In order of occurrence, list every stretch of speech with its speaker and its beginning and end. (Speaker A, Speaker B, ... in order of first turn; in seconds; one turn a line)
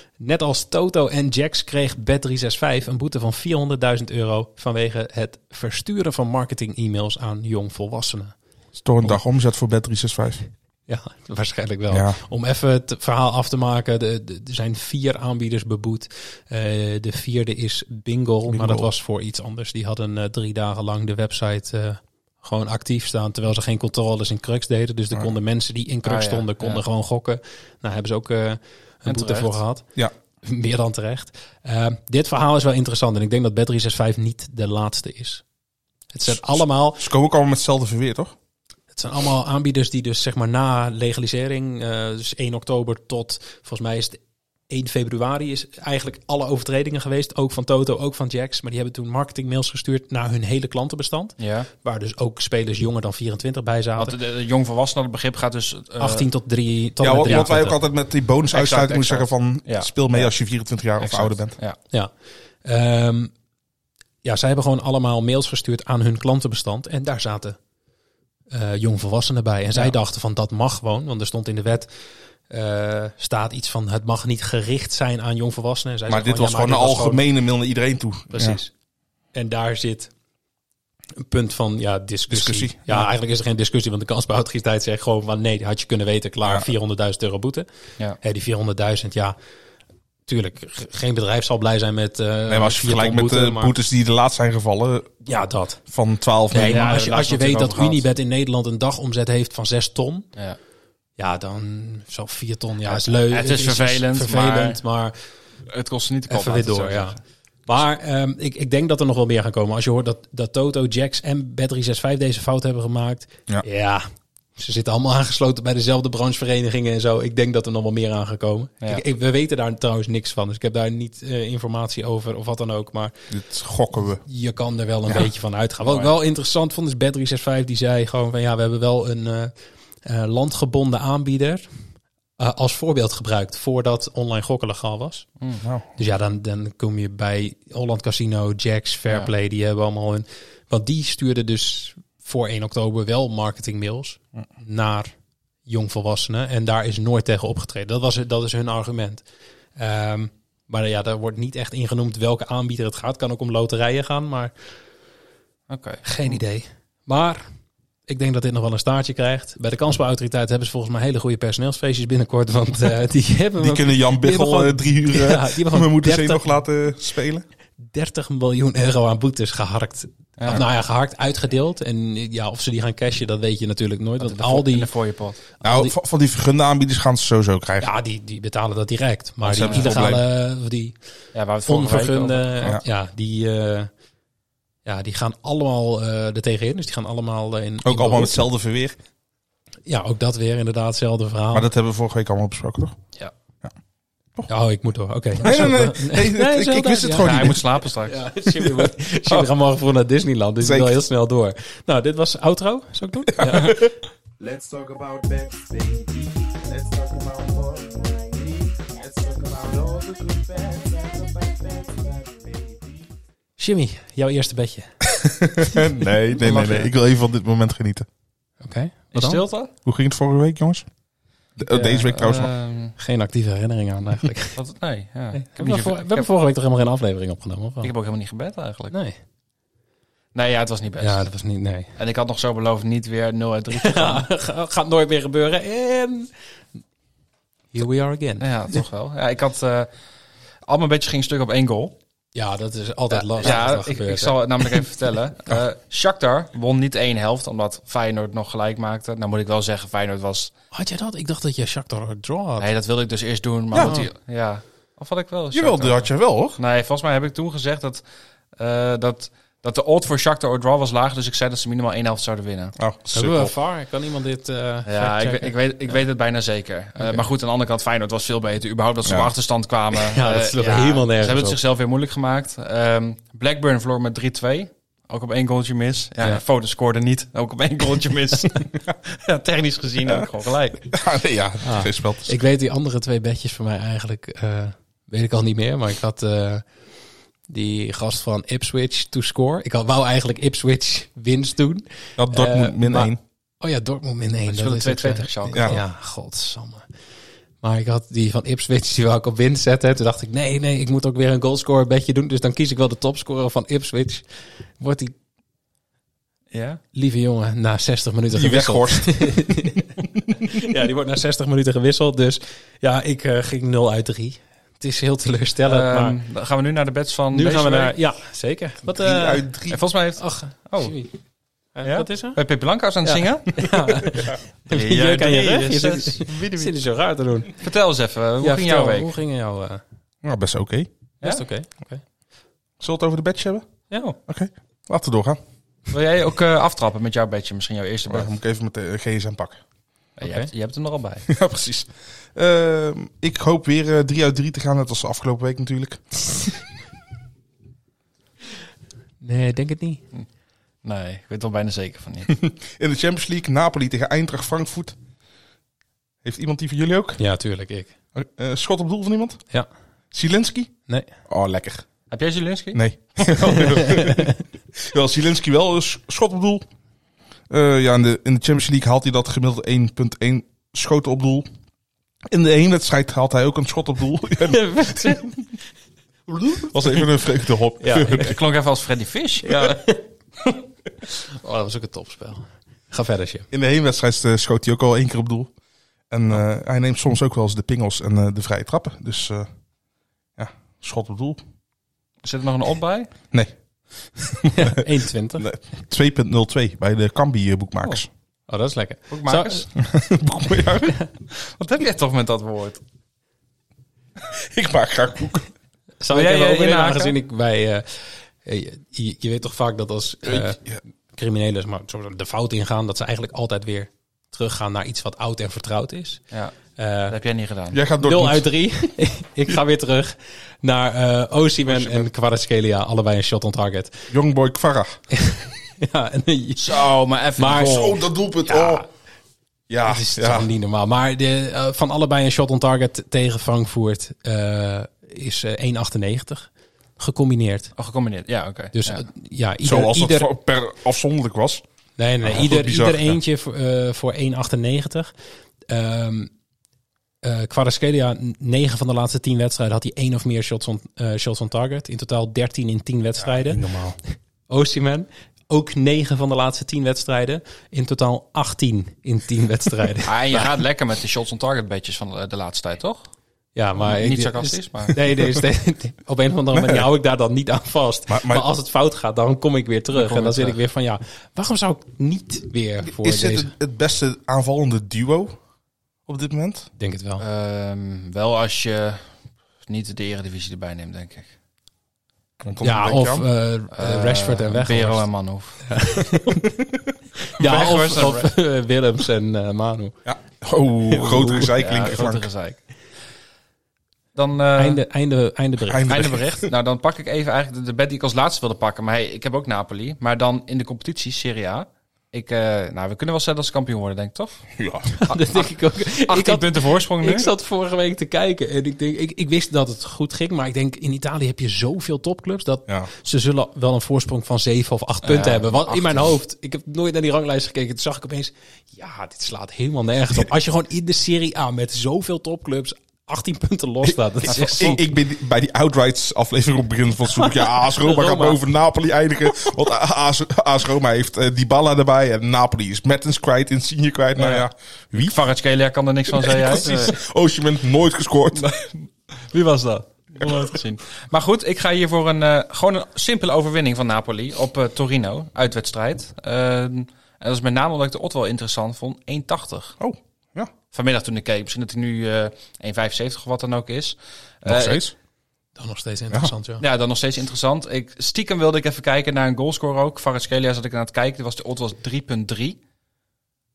Speaker A: 0.2-8.3
Speaker B: 8.8-10.4
Speaker A: 10.9-29.8
Speaker B: 11.9-12.2
Speaker B: 18.5-18.9
Speaker C: 26.0-26.8
Speaker C: 29.1-29.6
Speaker A: 30.4-35.4
Speaker A: 36.1-37.0
Speaker B: 36.3-38.3
Speaker A: 38.9-44.2
Speaker A: 44.7-54.1
Speaker C: 51.4-51.7
Speaker C: 54.0-56.3
Speaker A: 56.0-57.8
Speaker B: 57.0-61.6
Speaker C: 57.2-57.5
Speaker C: 58.5-60.3
Speaker C: 61.0-61.8
Speaker A: 62.6-63.3
Speaker A: 64.2-67.6
Speaker A: 68.5-71.9
Speaker A: 72.5-77.2
Speaker B: 76.1-78.6
Speaker A: 78.3-78.7
Speaker A: 79.3-80.1
Speaker A: 81.2-87.7
Speaker B: 82.3-83.1
Speaker A: 88.2-89.3
Speaker A: 90.2-93.7
Speaker B: 92.5-95.2
Speaker A: 95.2-95.8
Speaker B: 95.9-97.0
Speaker A: 96.5-100.3
Speaker C: 96.5-98.0
Speaker A: 101.2-105.2
Speaker C: 102.8-104.8
Speaker C: 105.7-107.2
Speaker A: 106.3-114.0
Speaker A: 114.6-123.1
Speaker B: 123.3-124.2
Speaker A: 124.2-129.5
Speaker A: 130.0-131.7
Speaker A: 132.4-135.3
Speaker A: 136.0-145.1
Speaker A: 145.7-149.2
Speaker A: 149.8-154.5
Speaker C: 155.7-156.0
Speaker A: 156.0-157.4
Speaker A: 158.1-166.5
Speaker B: 163.6-167.4
Speaker A: 167.8-174.9
Speaker C: 170.4-170.6
Speaker C: 174.2-175.4
Speaker A: 175.6-175.9
Speaker B: 175.6-177.9
Speaker A: 177.8-180.9
Speaker B: 179.4-180.2
Speaker C: 179.6-180.0
Speaker C: 181.3-182.6
Speaker A: 181.7-183.9
Speaker A: 184.8-188.4
Speaker B: 187.8-189.0
Speaker A: 189.8-191.7
Speaker B: 191.5-192.9
Speaker A: 194.5-203.8
Speaker B: 195.4-197.6
Speaker C: 197.2-198.2
Speaker B: 198.5-199.5
Speaker B: 200.6-201.0
Speaker B: 203.3-203.9
Speaker D: 204.4-213.0
Speaker A: 213.6-214.9
Speaker B: 215.2-218.1
Speaker C: 216.4-216.9
Speaker A: 218.6-219.4
Speaker C: 219.1-219.7
Speaker B: 219.8-220.9
Speaker B: 221.6-222.5
Speaker C: 221.7-222.9
Speaker A: 223.0-224.6
Speaker C: 224.5-226.3
Speaker A: 225.4-227.9
Speaker C: 227.8-228.9
Speaker A: 228.9-229.2
Speaker C: 230.3-231.2
Speaker A: 231.0-231.9
Speaker C: 232.0-234.3
Speaker A: 233.7-236.3
Speaker A: 237.7-238.5
Speaker C: 238.4-239.9
Speaker C: 240.7-241.9
Speaker A: 242.3-244.3
Speaker C: 243.1-250.5
Speaker A: 250.7-252.7
Speaker C: 252.6-258.0
Speaker B: 253.7-254.0
Speaker A: 253.8-254.1
Speaker B: 255.5-256.6
Speaker C: 258.6-262.7
Speaker B: 262.8-263.5
Speaker A: 263.1-266.0
Speaker C: 264.9-280.8
Speaker A: 267.0-267.2
Speaker B: 269.0-269.3
Speaker A: 270.0-271.6
Speaker B: 280.9-282.4
Speaker A: 281.6-286.6
Speaker A: 287.5-296.9
Speaker B: 292.2-293.2
Speaker C: 294.5-295.8
Speaker A: 297.6-304.2
Speaker A: 304.8-305.1
Speaker C: 306.5-306.8
Speaker A: 306.9-316.2
Speaker B: 308.3-309.6
Speaker C: 315.6-317.9
Speaker A: 317.3-319.5
Speaker B: 318.9-319.8
Speaker C: 319.7-320.9
Speaker A: 320.2-321.1
Speaker A: 321.7-322.4
Speaker C: 321.8-323.6
Speaker A: 323.0-327.6
Speaker C: 324.7-326.7
Speaker C: 327.6-329.1
Speaker A: 328.4-329.8
Speaker B: 330.2-330.9
Speaker A: 331.2-332.0
Speaker B: 332.8-333.7
Speaker A: 333.9-334.1
Speaker B: 334.2-335.4
Speaker C: 335.9-338.3
Speaker B: 338.1-339.6
Speaker C: 340.2-341.3
Speaker A: 340.2-340.5
Speaker B: 341.3-346.2
Speaker A: 349.2-350.0
Speaker C: 350.8-352.4
Speaker B: 352.3-354.9
Speaker B: 356.2-357.2
Speaker A: 357.2-357.9
Speaker B: 358.1-359.4
Speaker B: 360.1-360.7
Speaker B: 361.3-361.8
Speaker C: 362.1-363.6
Speaker B: 362.7-366.6
Speaker A: 363.8-364.4
Speaker B: 367.5-371.5
Speaker B: 372.3-375.3
Speaker A: 374.4-375.3
Speaker A: 376.3-376.7
Speaker B: 376.7-378.3
Speaker A: 377.8-378.3
Speaker C: 378.0-379.7
Speaker A: 379.4-380.1
Speaker A: 381.1-383.5
Speaker B: 383.5-385.5
Speaker B: 386.1-389.5
Speaker B: 390.4-391.4
Speaker C: 392.2-393.1
Speaker B: 394.1-394.8
Speaker A: 394.5-395.5
Speaker B: 395.4-398.1
Speaker A: 398.5-399.7
Speaker C: 399.1-399.7
Speaker B: 399.8-401.0
Speaker C: 401.3-402.8
Speaker B: 404.2-405.5
Speaker A: 406.0-410.6
Speaker C: 406.1-407.1
Speaker B: 410.2-410.8
Speaker A: 411.1-416.2
Speaker A: 416.8-417.1
Speaker C: 417.1-417.8
Speaker B: 417.7-418.5
Speaker A: 418.0-424.1
Speaker B: 421.6-422.1
Speaker B: 424.1-425.0
Speaker A: 425.1-426.8
Speaker C: 426.6-428.0
Speaker A: 427.4-427.8
Speaker B: 427.5-428.8
Speaker A: 428.4-428.9
Speaker B: 429.7-430.5
Speaker A: 429.8-437.7
Speaker C: 437.8-439.0
Speaker A: 438.7-440.3
Speaker B: 439.6-441.6
Speaker A: 442.0-445.1
Speaker B: 442.2-443.2
Speaker A: 445.7-446.3
Speaker A: 447.2-453.6
Speaker B: 453.2-454.0
Speaker A: 454.5-460.5
Speaker C: 460.0-463.1
Speaker A: 463.5-473.5
Speaker C: 463.8-464.9
Speaker B: 466.5-466.9
Speaker B: 468.1-468.4
Speaker C: 469.9-470.6
Speaker B: 472.8-475.4
Speaker B: 476.1-476.7
Speaker A: 476.8-477.2
Speaker C: 477.2-479.1
Speaker C: 479.6-481.3
Speaker B: 482.4-483.3
Speaker A: 482.6-485.1
Speaker C: 483.7-485.6
Speaker A: 485.6-486.4
Speaker A: 487.3-489.9
Speaker C: 487.4-488.3
Speaker B: 490.1-492.3
Speaker A: 490.9-491.5
Speaker C: 491.6-492.6
Speaker C: 494.1-494.8
Speaker A: 494.6-496.1
Speaker B: 495.6-496.4
Speaker C: 495.9-504.5
Speaker B: 504.6-504.9
Speaker A: 505.0-524.8
Speaker C: 505.1-507.3
Speaker C: 515.0-516.1
Speaker B: 523.9-535.2
Speaker C: 524.3-524.8
Speaker A: 527.8-528.4
Speaker C: 534.1-537.0
Speaker B: 536.1-538.5
Speaker A: 536.6-536.9
Speaker C: 538.3-549.8
Speaker B: 540.2-540.5
Speaker B: 549.8-550.5
Speaker C: 550.7-554.8
Speaker B: 554.4-554.9
Speaker A: 555.5-556.6
Speaker C: 556.6-562.6